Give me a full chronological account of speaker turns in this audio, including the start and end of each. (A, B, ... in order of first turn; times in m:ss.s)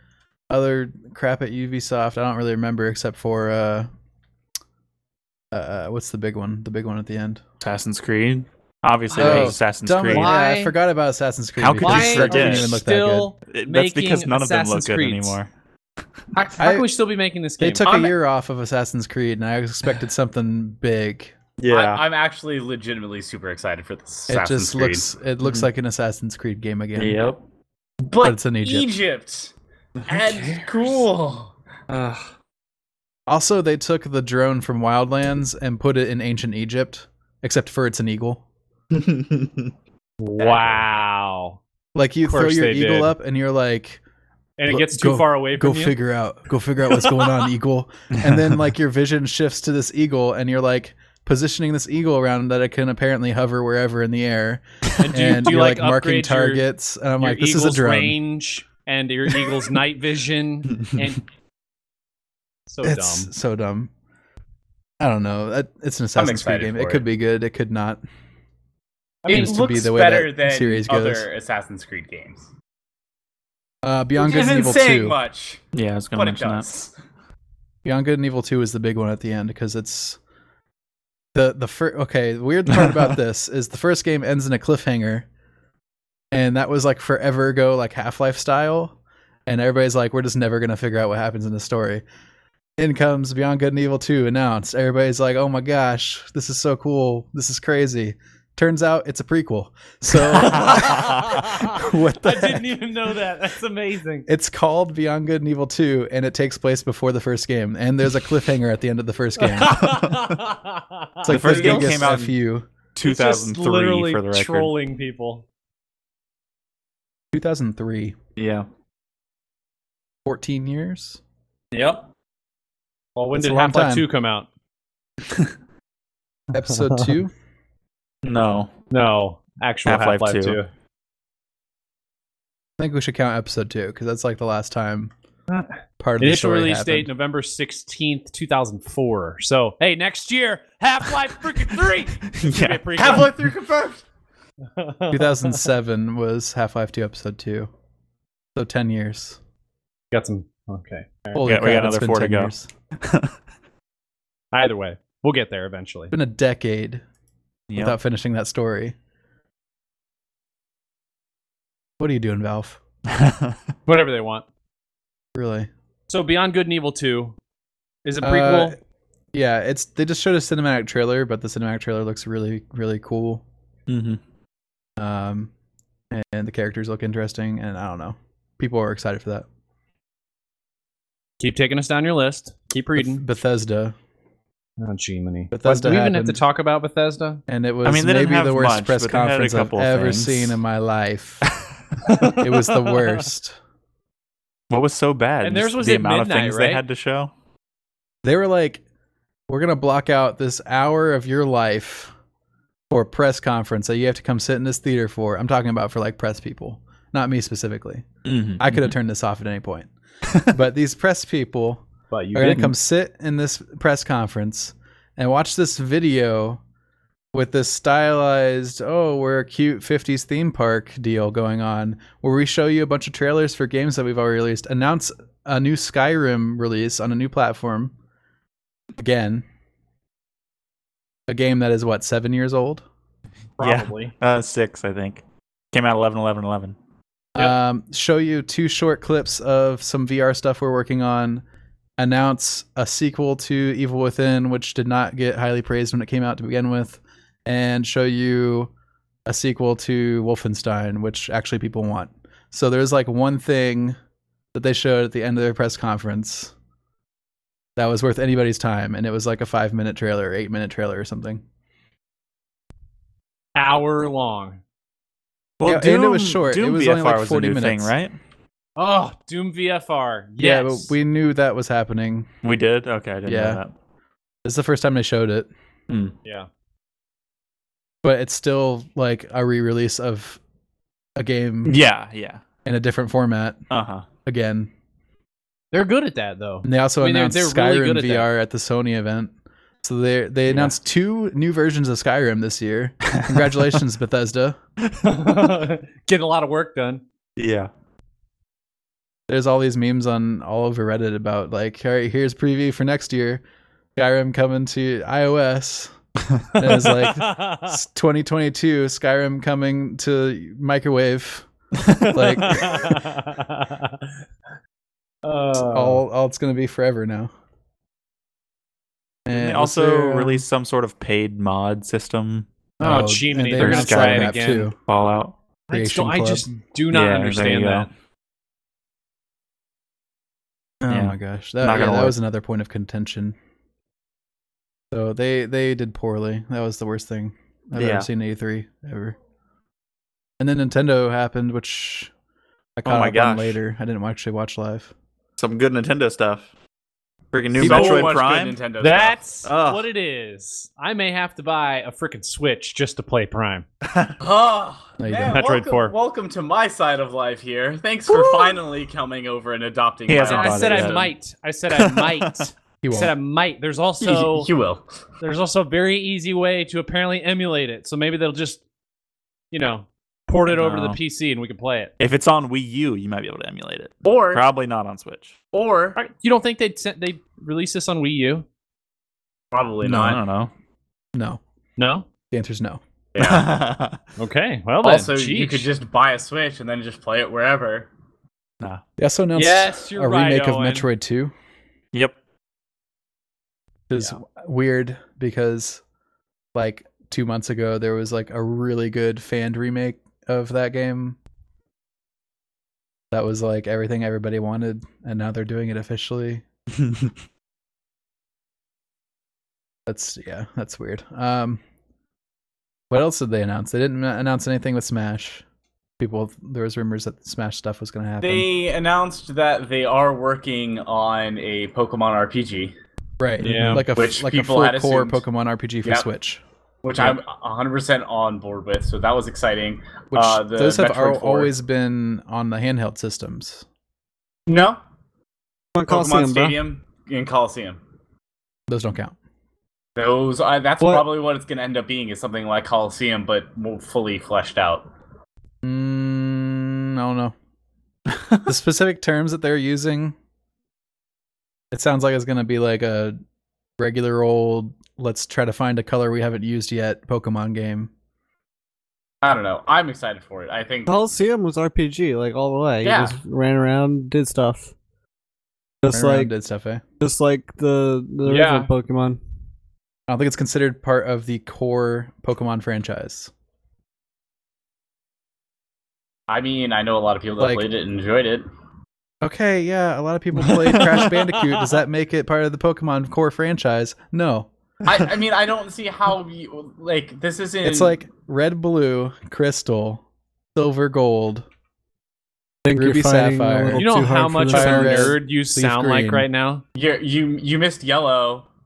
0:00.5-0:03.9 A
0:05.5-0:07.4 A
0:07.6-0:10.3 B
0:09.1-0:09.6 C
0:09.2-0:13.3 A
0:10.1-0:10.8 C
0:11.6-0:12.7 B
0:11.8-0:15.4 C
0:13.5-0:15.5 B
0:16.4-0:17.9 C
0:16.6-0:16.9 A
0:17.6-0:21.4 A
0:17.8-0:18.2 D
0:21.6-0:22.0 B
0:21.7-0:25.1 D
0:24.3-0:27.2 A
0:25.4-0:25.7 B
0:27.0-0:27.4 B
0:28.1-0:29.5 D
0:28.2-0:28.9 A
0:30.1-0:31.5 D
0:31.9-0:32.2 C
0:33.3-0:38.4 A
0:38.9-0:39.7 B
0:40.2-0:41.6 C
0:40.4-0:40.7 D
0:42.0-0:44.0 A
0:42.2-0:43.1 C
0:44.6-0:46.0 C
0:44.7-0:58.2 A
0:47.0-0:47.3 C
0:48.2-0:48.4 B
0:55.0-0:56.7 C
0:57.2-1:01.2 C
1:02.7-1:03.3 C
1:02.8-1:03.9 A
1:05.0-1:08.0 A
1:06.2-1:07.0 D
1:09.3-1:12.5 D
1:09.3-1:11.3 A
1:13.8-1:15.2 A
1:14.2-1:16.9 D
1:15.7-1:16.6 B
1:17.8-1:20.2 A
1:21.3-1:25.3 A
1:26.3-1:29.0 A
1:29.5-1:32.0 A
1:32.8-1:42.7 A
1:40.3-1:44.3 C
1:40.5-1:41.2 B
1:44.3-1:49.8 A
1:49.4-1:51.9 C
1:49.7-1:50.3 B
1:51.2-1:52.7 A
1:51.3-1:52.3 B
1:53.0-1:54.7 B
1:53.0-1:55.4 C
1:57.3-1:58.2 A
1:58.4-1:58.7 B
2:00.2-2:01.2 A
2:01.7-2:02.0 D
2:03.2-2:04.5 C
2:03.3-2:04.1 A
2:06.5-2:07.3 A
2:08.2-2:08.7 B
2:08.9-2:10.7 C
2:09.9-2:10.6 B
2:12.8-2:15.1 A
2:15.5-2:23.3 C
2:16.0-2:17.1 A
2:22.3-2:23.3 B
2:23.0-2:24.0 D
2:24.8-2:25.7 C
2:25.1-2:27.7 A
2:28.6-2:29.4 A
2:30.1-2:31.4 C
2:31.4-2:32.7 A
2:31.4-2:33.3 B
2:34.5-2:36.1 C
2:36.1-2:37.0 A
2:37.7-2:38.0 B
2:37.8-2:39.0 A
2:42.0-2:42.8 A
2:43.1-2:43.6 B
2:43.9-2:44.4 C
2:45.4-2:45.7 A
2:46.1-2:47.4 C
2:48.0-2:48.8 C
2:48.2-2:48.8 A
2:49.3-2:53.4 A
2:53.9-2:54.2 B
2:55.0-2:55.5 A
2:56.1-2:59.5 A
3:01.4-3:03.2 C
3:03.0-3:04.0 A
3:04.8-3:07.4 C
3:05.5-3:06.4 A
3:07.5-3:11.5 A
3:07.8-3:10.6 B
3:12.1-3:13.2 C
3:12.4-3:13.6 A
3:14.7-3:17.3 B
3:15.4-3:16.8 C
3:18.2-3:18.8 A
3:19.5-3:22.1 A
3:22.9-3:28.1 A
3:28.2-3:28.9 B
3:28.6-3:29.9 A
3:30.5-3:31.8 A
3:32.1-3:32.8 C
3:32.4-3:36.6 A
3:37.3-3:47.9 A
3:49.0-3:49.4 A
3:51.3-3:52.8 A
3:53.6-3:54.1 C
3:53.6-3:56.8 B
3:57.4-4:01.4 A
4:02.0-4:08.7 A
4:09.3-4:14.0 A
4:14.5-4:16.5 A
4:17.8-4:21.4 A
4:23.6-4:24.6 C
4:25.6-4:28.2 B
4:25.7-4:27.9 A
4:28.8-4:30.9 C
4:30.4-4:32.3 A
4:32.4-4:33.7 B
4:33.3-4:33.6 A
4:34.4-4:35.5 A
4:35.9-4:36.2 B
4:36.2-4:36.5 C
4:38.0-4:40.4 A
4:41.2-4:41.8 A
4:41.7-4:42.4 B
4:42.6-4:43.6 A
4:43.7-4:44.1 B
4:44.2-4:44.7 A
4:45.7-4:48.3 C
4:46.6-4:49.3 A
4:49.8-4:54.6 A
4:50.5-4:50.7 B
4:53.1-4:53.4 B
4:55.0-4:57.0 C
4:57.4-4:57.7 B
4:59.3-5:03.4 A
5:04.0-5:06.0 A
5:06.6-5:11.5 A
5:06.9-5:07.8 C
5:11.8-5:12.2 B
5:12.0-5:13.0 A
5:12.2-5:14.1 C
5:15.2-5:16.0 C
5:15.7-5:17.3 A
5:19.3-5:20.4 A
5:19.3-5:22.5 B
5:22.8-5:24.8 A
5:22.8-5:24.7 C
5:23.6-5:25.4 B
5:25.7-5:27.9 C
5:25.7-5:26.5 A
5:26.9-5:27.9 B
5:30.8-5:33.4 A
5:30.9-5:32.2 B
5:34.9-5:39.2 A
5:37.8-5:38.1 B
5:40.4-5:42.1 A
5:42.8-5:44.9 A
5:42.9-5:43.6 B
5:45.4-5:46.5 B
5:47.3-5:48.6 B
5:47.6-5:49.2 D
5:47.6-5:48.1 A
5:48.8-5:53.7 C
5:49.5-5:49.8 B
5:53.9-5:54.2 B
5:54.2-6:01.1 D
5:55.0-5:55.4 A
5:55.3-5:55.9 C
5:58.1-5:58.6 B
6:00.1-6:01.1 B
6:00.2-6:04.5 C
6:01.8-6:02.5 B
6:02.8-6:03.1 A
6:04.0-6:04.8 D
6:05.2-6:08.6 C
6:09.5-6:11.9 C
6:10.5-6:11.0 B
6:12.0-6:15.4 B
6:14.0-6:14.4 D
6:15.5-6:16.0 D
6:16.0-6:18.5 C
6:19.5-6:20.2 D
6:19.8-6:20.5 B
6:21.2-6:21.4 A
6:21.8-6:22.1 C
6:22.3-6:22.8 A
6:23.1-6:23.5 D
6:23.2-6:24.0 B
6:24.2-6:25.7 C
6:24.8-6:27.9 D
6:29.0-6:31.3 A
6:29.4-6:30.9 C
6:33.9-6:35.8 A
6:36.6-6:41.2 A
6:43.1-6:46.4 A
6:49.9-6:51.6 A
6:52.9-6:55.4 A
6:56.0-6:58.5 A
6:58.2-7:02.7 D
7:03.2-7:06.4 A
7:03.4-7:03.8 C
7:03.5-7:03.8 B
7:04.0-7:05.2 D
7:06.8-7:11.5 D
7:10.1-7:13.7 A
7:14.5-7:14.8 D
7:15.8-7:16.6 E
7:15.9-7:17.8 D
7:18.7-7:19.2 A
7:20.0-7:24.9 D
7:20.8-7:21.1 E
7:25.6-7:27.3 A
7:28.5-7:30.2 A
7:31.7-7:33.2 A
7:33.8-7:37.9 A
7:39.2-7:40.9 D
7:40.9-7:44.7 E
7:42.8-7:43.2 D
7:45.8-7:46.3 E
7:45.9-7:46.8 A
7:47.0-7:49.2 E
7:48.2-7:48.7 C
7:50.1-7:53.3 A
7:56.3-7:58.5 D
7:57.4-7:57.6 A
7:59.2-8:04.5 A
8:04.8-8:08.0 D
8:07.6-8:10.0 A
8:10.6-8:11.5 A
8:12.6-8:15.2 E
8:12.7-8:13.9 A
8:13.8-8:16.6 C
8:14.5-8:16.3 A
8:16.8-8:18.5 D